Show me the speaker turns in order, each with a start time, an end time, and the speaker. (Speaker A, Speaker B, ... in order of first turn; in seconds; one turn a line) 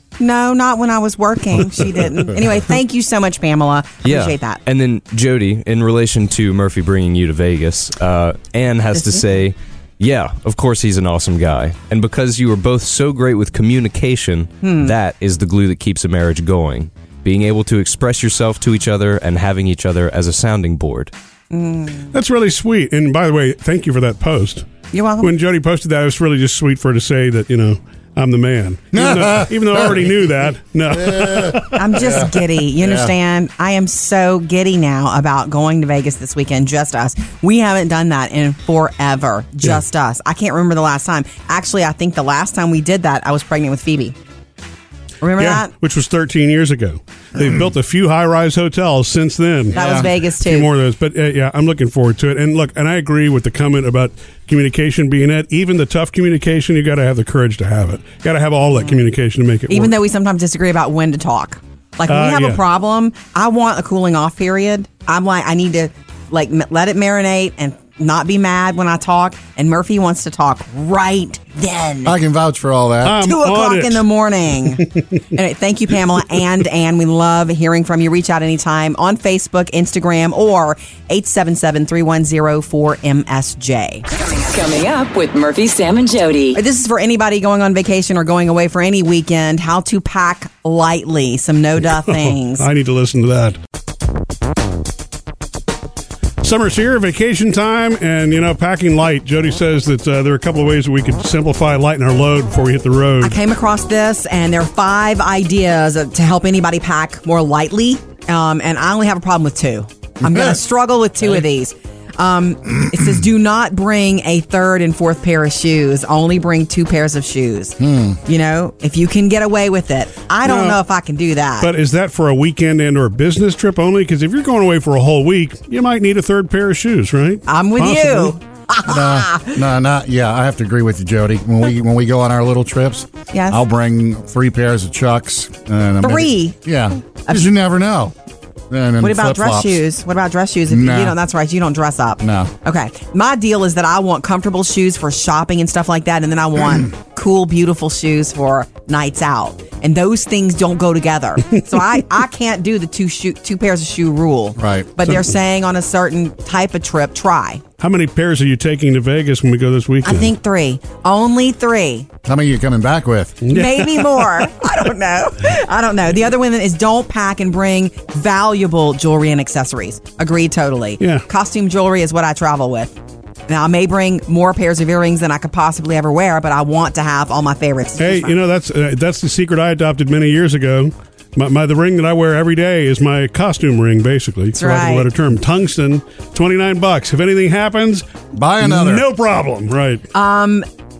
Speaker A: 0.2-4.6
Speaker B: 4.0-21.1
Speaker A: 8.9-9.2
Speaker A: 14.6-14.9
Speaker A: 21.5-22.1
Speaker C: 22.1-24.7
Speaker A: 24.9-25.3
Speaker C: 25.2-31.8
Speaker D: 28.9-30.3
Speaker D: 30.9-33.1
Speaker A: 31.7-44.1
Speaker A: 45.2-45.7
Speaker C: 45.4-59.9
Speaker D: 49.7-50.1
Speaker A: 49.7-50.7
Speaker A: 59.7-72.2
Speaker C: 62.1-62.6
Speaker D: 72.0-73.2
Speaker C: 73.0-74.0
Speaker A: 73.2-84.0
Speaker E: 84.1-86.6
Speaker A: 86.5-92.6
Speaker C: 91.9-93.6
Speaker C: 96.4-103.4
Speaker A: 103.2-121.7
Speaker D: 110.2-110.5
Speaker D: 112.9-113.2
Speaker D: 117.8-118.2
Speaker C: 120.4-120.8
Speaker C: 121.6-128.3
Speaker A: 127.5-129.6
Speaker D: 128.8-138.1
Speaker A: 133.3-133.6
Speaker A: 136.0-136.6
Speaker D: 138.7-139.8
Speaker A: 139.0-157.6
Speaker D: 140.7-141.2
Speaker D: 142.2-142.5
Speaker D: 154.6-154.9
Speaker C: 157.8-160.3
Speaker A: 160.0-162.1
Speaker D: 162.2-163.4
Speaker C: 163.4-164.4
Speaker A: 163.5-172.9
Speaker C: 171.0-171.2
Speaker A: 173.5-178.3
Speaker C: 178.0-188.0
Speaker A: 184.6-185.1
Speaker D: 188.3-189.0
Speaker C: 188.6-190.0
Speaker A: 190.1-190.7